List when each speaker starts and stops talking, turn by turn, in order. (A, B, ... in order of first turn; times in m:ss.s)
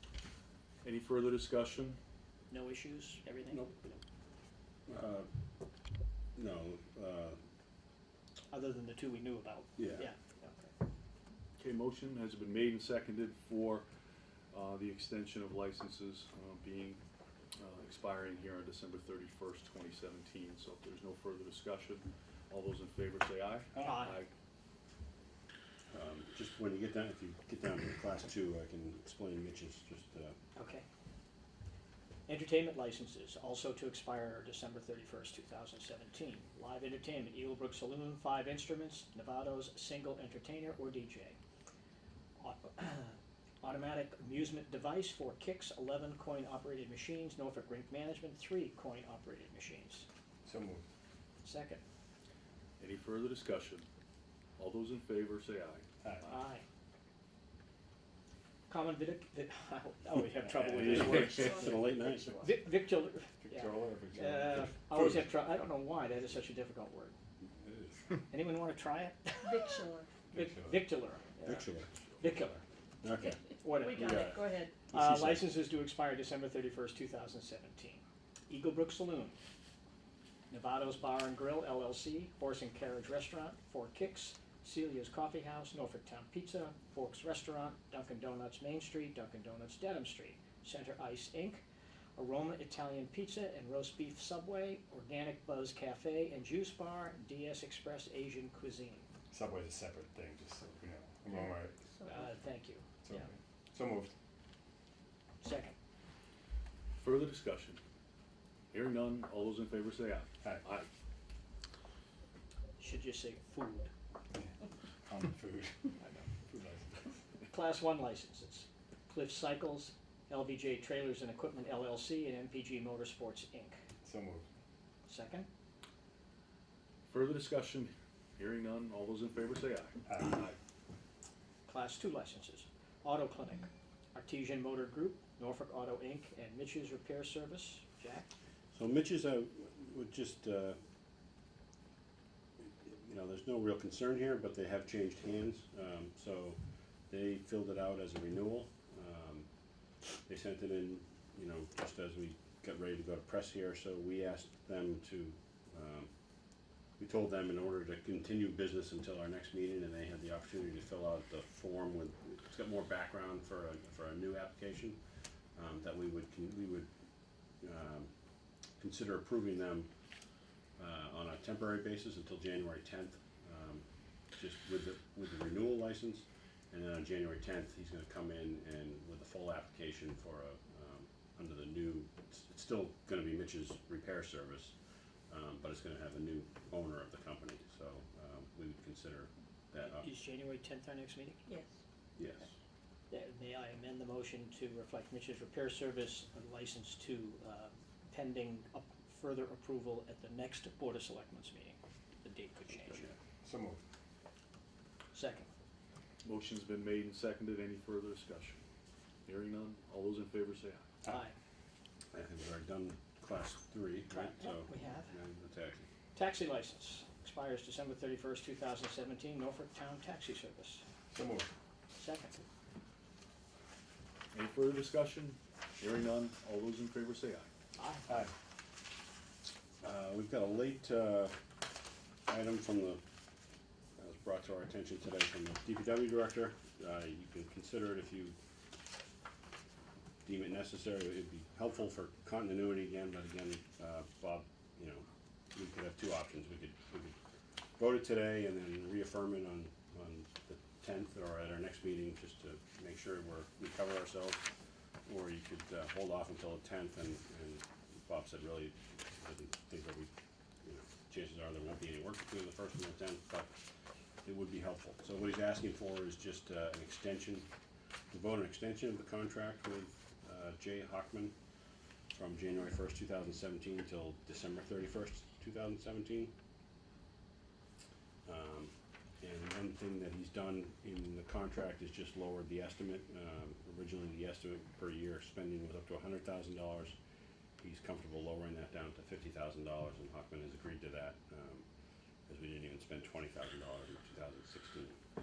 0:00.8-0:02.0 A
0:02.5-0:03.6 B
0:03.5-0:03.9 C
0:04.9-0:05.3 C
0:06.4-0:07.4 C
0:08.5-0:10.7 B
0:09.8-0:10.0 C
0:11.6-0:13.9 A
0:14.5-0:17.0 A
0:17.6-0:24.3 A
0:23.7-0:24.0 D
0:23.8-0:24.2 B
0:25.9-0:30.4 C
0:30.6-0:30.8 B
0:32.3-0:41.4 B
0:42.4-0:50.0 B
0:50.4-0:50.8 D
0:51.4-0:51.8 B
0:52.8-0:53.9 A
0:54.6-0:55.8 A
0:56.0-0:56.3 D
0:56.2-0:56.6 B
0:58.7-1:01.7 B
1:00.4-1:01.0 D
1:00.8-1:02.4 C
1:01.0-1:02.5 E
1:02.4-1:07.2 B
1:03.4-1:05.3 D
1:07.6-1:08.0 D
1:08.3-1:09.8 B
1:09.4-1:10.1 E
1:10.3-1:10.8 D
1:10.3-1:11.6 B
1:11.4-1:11.9 C
1:12.2-1:12.6 B
1:13.0-1:13.4 C
1:13.2-1:14.8 E
1:13.6-1:19.4 B
1:14.0-1:15.5 C
1:20.5-1:31.6 B
1:32.2-1:39.1 B
1:39.3-1:41.8 D
1:41.8-1:42.3 E
1:42.0-1:42.9 B
1:43.0-1:44.1 D
1:45.4-1:45.7 B
1:47.0-1:47.8 A
1:48.7-1:50.9 A
1:52.8-1:53.9 B
1:55.0-1:57.0 D
1:56.0-1:56.3 B
1:57.5-2:03.8 B
2:04.0-2:04.4 D
2:05.0-2:05.5 B
2:07.1-2:10.0 A
2:10.1-2:10.6 D
2:11.7-2:18.3 B
2:18.7-2:20.8 C
2:22.6-2:29.5 C
2:30.3-2:36.1 C
2:37.0-2:45.0 C
2:45.5-2:46.9 C
2:47.6-2:48.1 C
2:48.8-2:49.9 C
2:50.8-3:04.7 C
3:05.3-3:10.2 C
3:09.9-3:11.4 B
3:11.4-3:11.8 E
3:12.2-3:12.5 C
3:13.1-3:23.1 B
3:22.8-3:23.1 C
3:23.4-3:23.8 D
3:25.1-3:25.5 B
3:26.2-3:28.6 A
3:29.2-3:30.8 A
3:31.0-3:31.3 B
3:32.1-3:35.9 C
3:34.1-3:35.1 B
3:36.1-3:40.8 B
3:41.1-3:41.5 D
3:41.9-3:42.4 B
3:44.3-3:47.5 A
3:47.8-3:48.3 B
3:48.1-3:48.3 D
3:49.8-3:51.4 C
3:52.3-3:53.0 C
3:54.0-3:58.4 C
4:00.2-4:07.2 C
4:07.8-4:14.5 C
4:15.0-4:20.1 C
4:20.6-4:23.6 C
4:24.2-4:27.5 C
4:28.1-4:31.3 C
4:32.1-4:36.3 C
4:38.2-4:47.0 C
4:47.6-4:51.6 C
4:52.3-4:55.0 C